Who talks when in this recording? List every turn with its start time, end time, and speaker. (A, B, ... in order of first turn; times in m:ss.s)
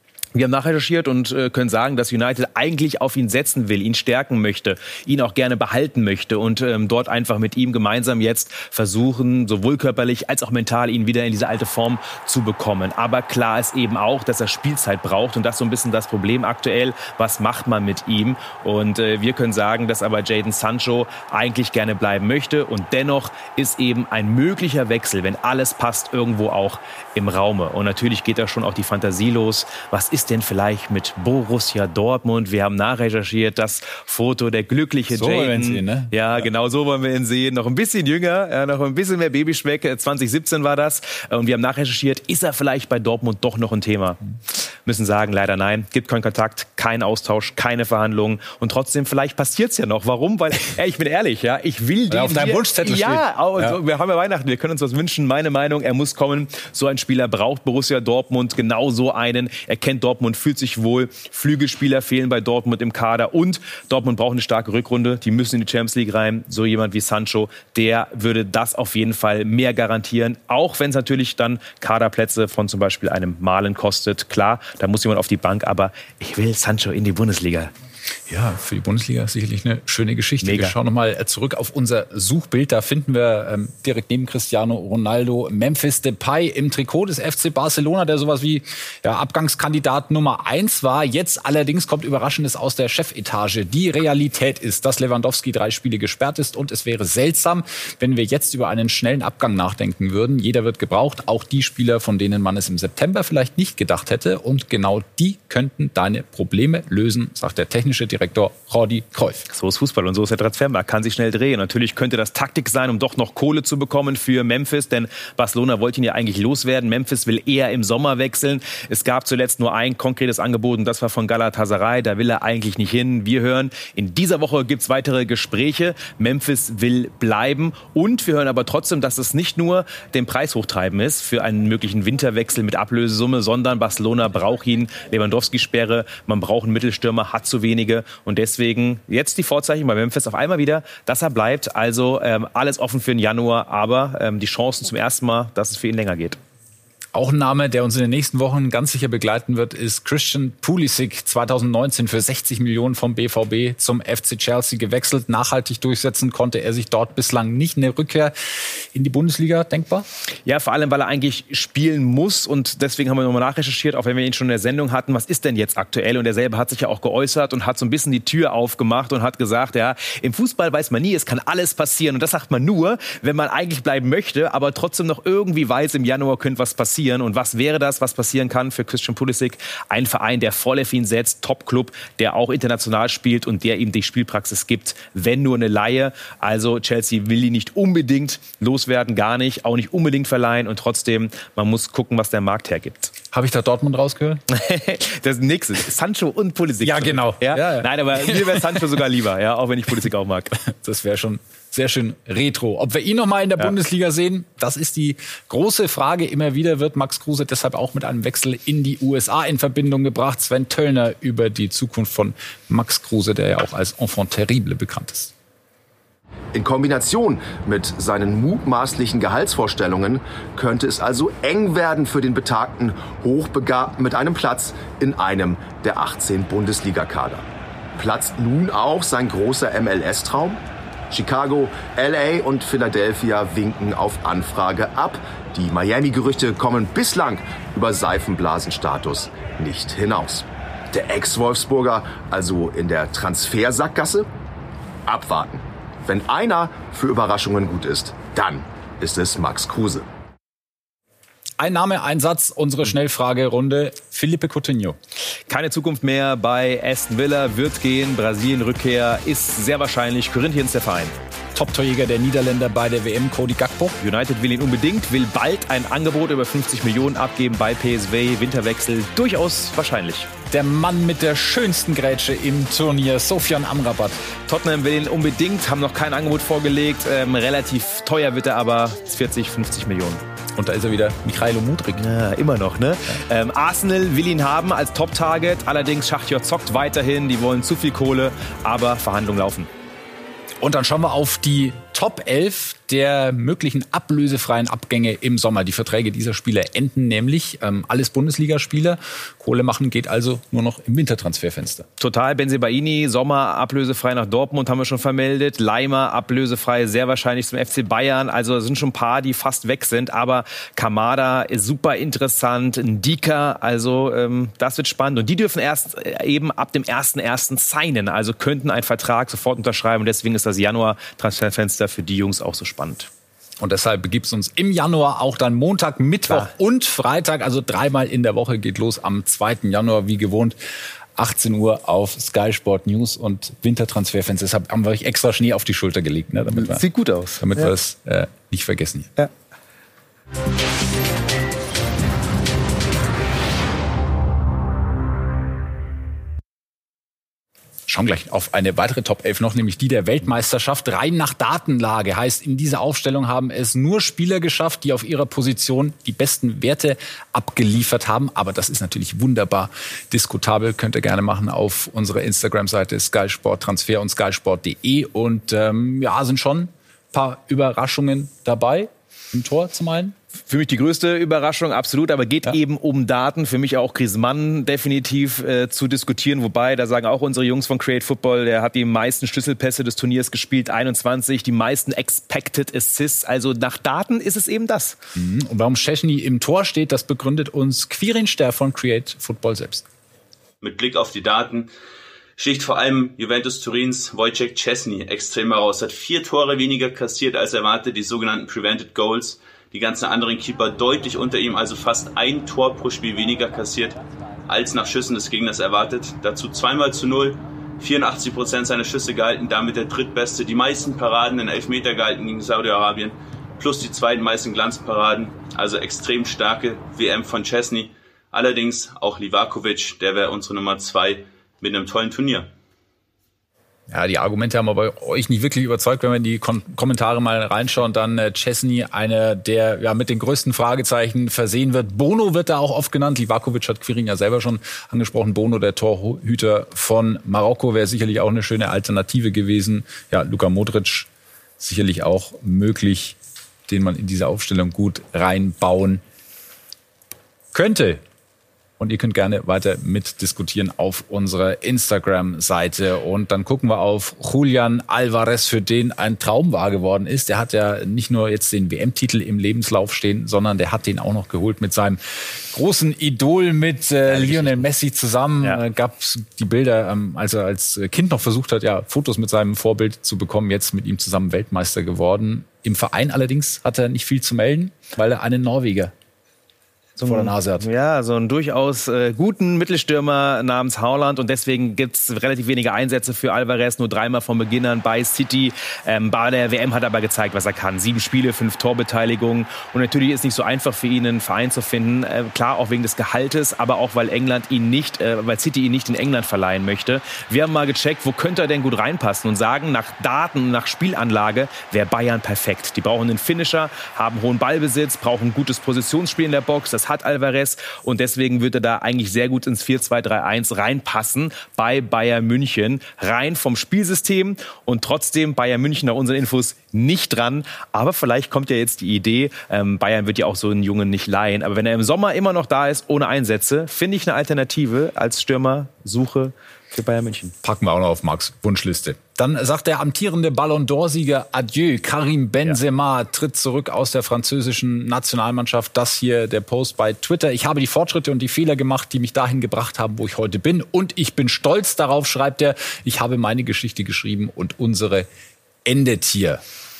0:00.4-1:17.7 A
0:35.1-0:36.5 B
0:52.1-0:53.8 B
1:18.3-1:49.4 B
1:20.4-1:20.8 A
1:49.5-2:26.4 A
2:27.1-2:40.1 B
2:40.5-3:13.1 A
3:13.3-3:14.4 B
3:14.5-3:20.6 A
3:16.8-3:19.0 B
3:20.7-3:35.3 B
3:36.5-3:47.4 C
3:48.0-4:04.3 C
4:05.1-4:10.1 C
4:11.6-4:15.0 B
4:15.5-4:21.1 A
4:21.5-4:24.0 B
4:24.0-4:30.3 A
4:30.5-4:34.2 B
4:34.5-4:40.2 A
4:40.6-4:42.1 B
4:42.0-4:49.7 A
4:50.6-5:01.9 B
5:02.0-5:23.1 A
5:23.6-5:30.6 B
5:31.2-5:36.8 B
5:36.6-5:37.7 A
5:37.4-5:39.1 B
5:47.9-6:10.2 B
6:10.5-6:25.0 A
6:25.2-6:29.8 B
6:30.6-6:31.7 D
6:32.4-7:02.5 D
7:03.9-7:21.1 B
7:21.6-7:26.0 B
7:27.5-7:28.0 B
7:28.8-7:55.9 B
7:44.1-7:44.7 A
7:57.0-8:47.4 A
7:57.0-7:57.7 B
8:47.4-9:05.1 B
9:05.6-9:06.4 B